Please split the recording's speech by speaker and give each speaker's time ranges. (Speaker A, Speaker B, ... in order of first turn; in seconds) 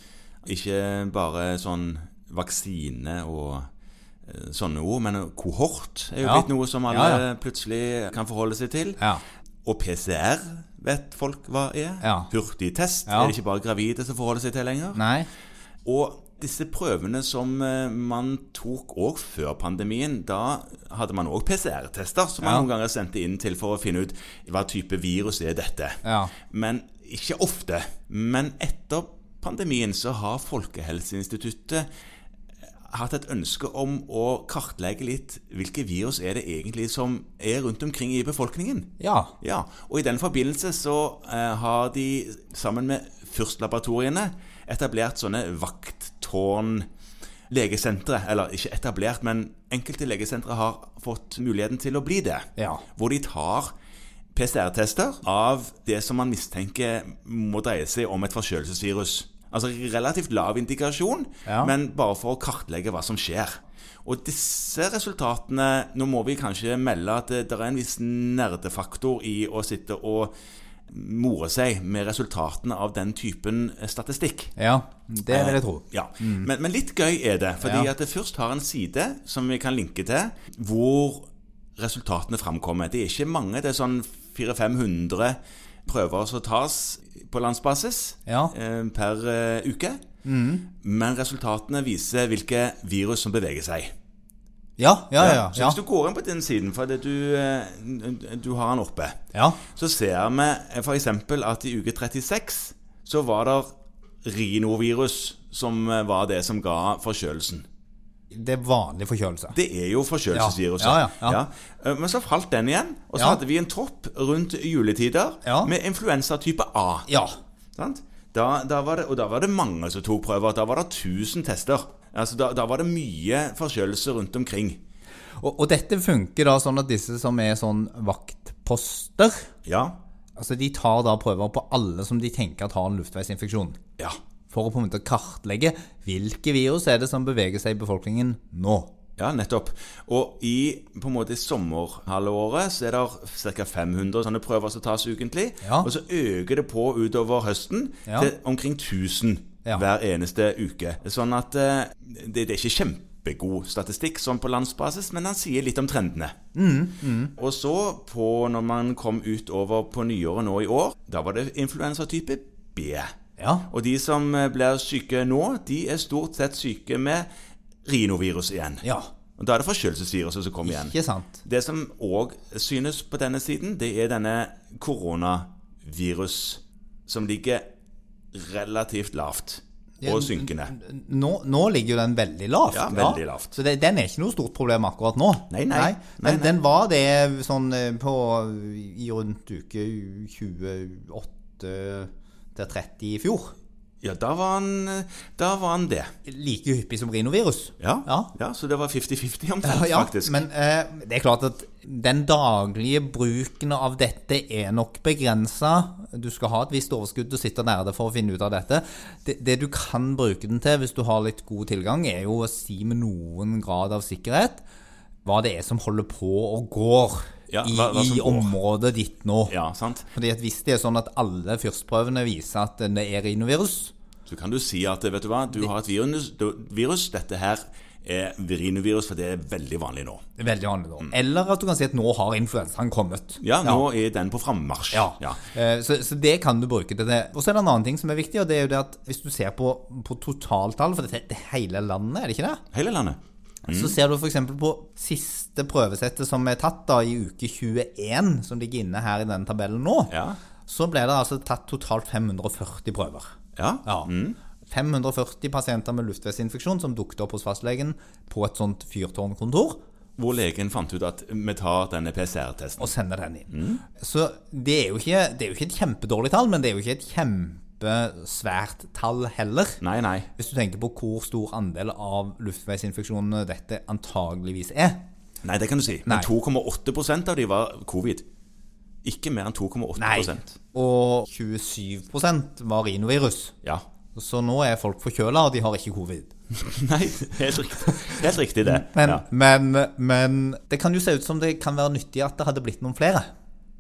Speaker A: 0.4-3.7, 4.2-9.0, 9.7-15.0, 15.8-31.9, 32.9-46.9, 47.5-53.7, 54.3-70.3, 70.9-74.5, 75.3-90.0, 90.8-93.9, 95.2-103.7, 104.2-107.7, 109.5-117.1, 117.8-124.8, 129.7-130.0, 139.2-156.3, 157.4-163.1, 163.7-167.3, 167.8-168.9, 169.4-177.7, 178.3-180.7, 182.7-183.6, 185.5-186.5, 194.0-196.1, 197.8-200.4, 217.5-218.6, 219.5-220.1, 224.3-230.2, 233.4-235.4, 242.7-244.0, 250.1-250.4, 253.6-254.4, 260.2-262.9, 263.5-263.8, 269.8-270.3, 275.4-278.2, 279.0-280.6, 286.5-289.2
Speaker B: 6.2-7.2, 12.0-12.3, 13.1-13.3, 15.0-15.3, 26.0-26.3, 39.0-39.3, 52.6-52.9, 61.5-61.7, 74.6-76.5, 77.6-77.9, 88.3-88.5, 90.2-90.7, 94.8-95.8, 99.3-99.6, 108.3-109.6, 110.3-111.4, 115.4-115.7, 117.1-117.4, 125.4-129.5, 130.4-133.8, 134.5-138.9, 145.6-145.9, 156.5-157.3, 163.4-163.7, 168.8-169.1, 170.7-171.4, 180.0-193.5, 196.2-198.3, 199.6-214.6, 215.2-219.6, 220.1-223.9, 230.4-233.8, 234.9-242.6, 243.7-250.1, 250.7-254.1, 254.7-259.8, 262.8-269.8, 270.4-275.1, 280.0-283.6, 284.1-286.3, 288.6-293.3